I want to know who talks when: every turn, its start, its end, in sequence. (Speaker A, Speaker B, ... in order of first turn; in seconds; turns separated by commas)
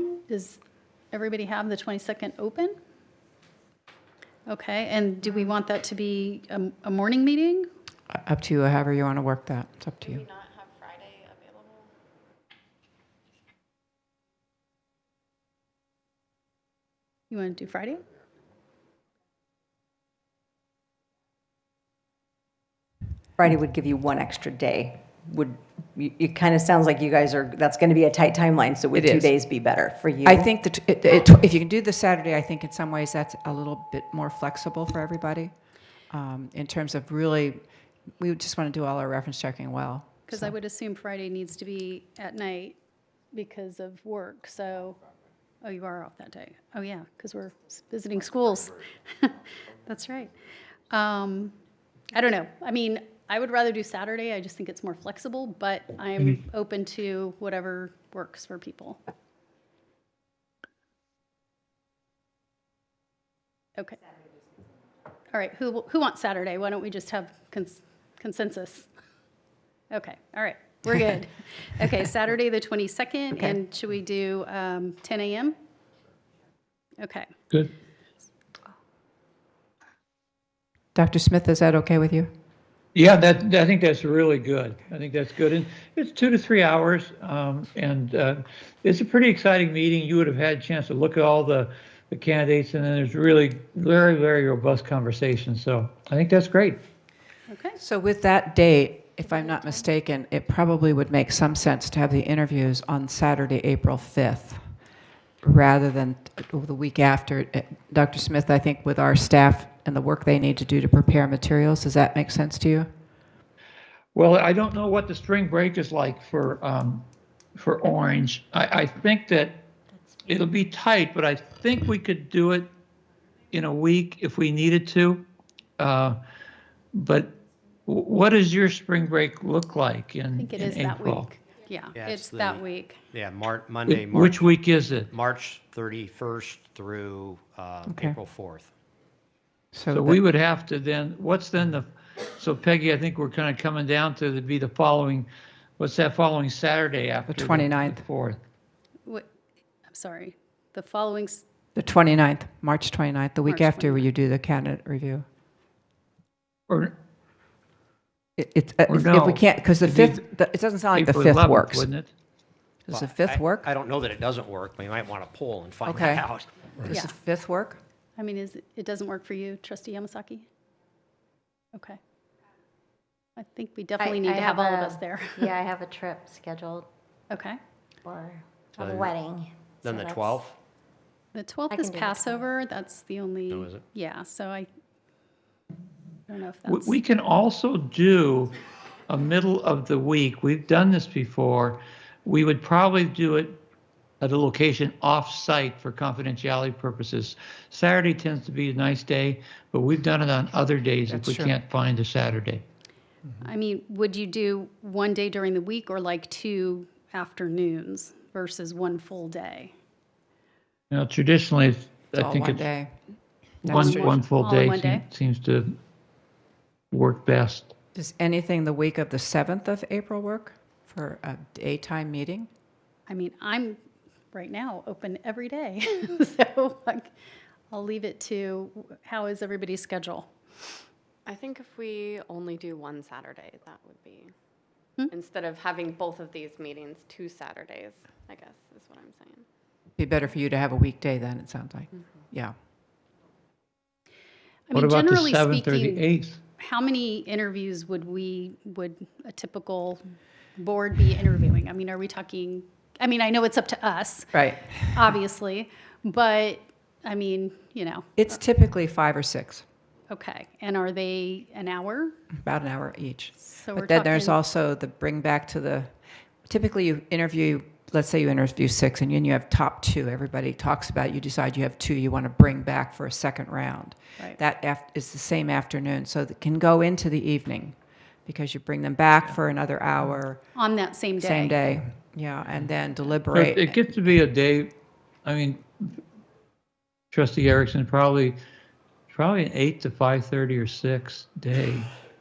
Speaker A: 0.3-0.6, Speaker A: 1.1-2.8, Speaker A: 4.5-7.7, Speaker B: 8.1-10.2, Speaker C: 10.1-11.9, Speaker A: 17.3-18.0, Speaker D: 23.4-30.5, Speaker B: 28.9-29.3, Speaker B: 30.2-35.5, Speaker B: 36.1-37.6, Speaker B: 38.2-40.5, Speaker A: 40.3-42.8, Speaker A: 43.3-45.0, Speaker A: 45.6-50.4, Speaker A: 50.9-51.5, Speaker A: 52.1-59.0, Speaker A: 65.3-68.9, Speaker A: 69.9-75.5, Speaker A: 77.0-77.3, Speaker B: 81.0-82.3, Speaker E: 83.0-96.8, Speaker A: 97.5-97.8, Speaker B: 97.8-104.6, Speaker B: 105.4-112.9, Speaker E: 114.2-119.6, Speaker E: 120.2-122.7, Speaker E: 123.5-125.2, Speaker E: 125.8-126.2, Speaker E: 126.9-127.3, Speaker E: 127.9-131.3, Speaker A: 130.4-133.0, Speaker F: 132.0-134.5, Speaker E: 133.9-135.1, Speaker F: 135.1-138.7, Speaker B: 137.9-138.2, Speaker B: 139.7-140.2, Speaker E: 139.9-145.3, Speaker E: 145.8-148.4, Speaker B: 147.3-148.0, Speaker A: 149.9-151.4, Speaker B: 151.8-155.2, Speaker A: 153.5-154.1, Speaker B: 158.4-161.9, Speaker E: 158.9-160.2, Speaker E: 160.9-162.1, Speaker B: 162.9-163.7, Speaker F: 162.9-166.7, Speaker B: 165.9-166.3, Speaker B: 166.8-167.8, Speaker A: 166.9-167.2, Speaker A: 168.2-170.5, Speaker A: 173.4-175.6, Speaker G: 174.0-176.9, Speaker A: 177.3-177.6, Speaker G: 178.0-180.4, Speaker F: 178.8-179.2, Speaker F: 179.8-180.6, Speaker A: 181.3-184.7, Speaker G: 181.7-182.5, Speaker F: 183.5-183.8, Speaker A: 186.3-187.0, Speaker E: 186.7-188.6, Speaker E: 189.1-193.6, Speaker E: 194.2-202.6, Speaker B: 201.1-201.5, Speaker A: 203.4-209.7, Speaker E: 210.9-212.7, Speaker B: 212.1-212.9, Speaker B: 213.6-214.2, Speaker E: 213.7-215.8, Speaker A: 213.7-215.0, Speaker E: 216.9-217.7, Speaker B: 217.9-222.5, Speaker A: 223.1-223.8, Speaker A: 224.3-227.1, Speaker A: 227.7-230.3, Speaker C: 231.3-234.3, Speaker C: 235.1-239.4, Speaker B: 240.0-242.5, Speaker A: 244.7-246.0, Speaker E: 244.7-246.4, Speaker A: 246.6-250.0, Speaker A: 250.6-258.1, Speaker B: 254.3-255.1, Speaker B: 258.2-259.6, Speaker A: 260.1-262.2, Speaker B: 262.3-265.9, Speaker A: 263.4-264.4, Speaker B: 266.5-280.4, Speaker A: 280.6-281.6, Speaker B: 281.2-283.9, Speaker E: 283.3-284.7, Speaker E: 285.2-285.9, Speaker E: 287.1-288.4, Speaker E: 289.1-291.9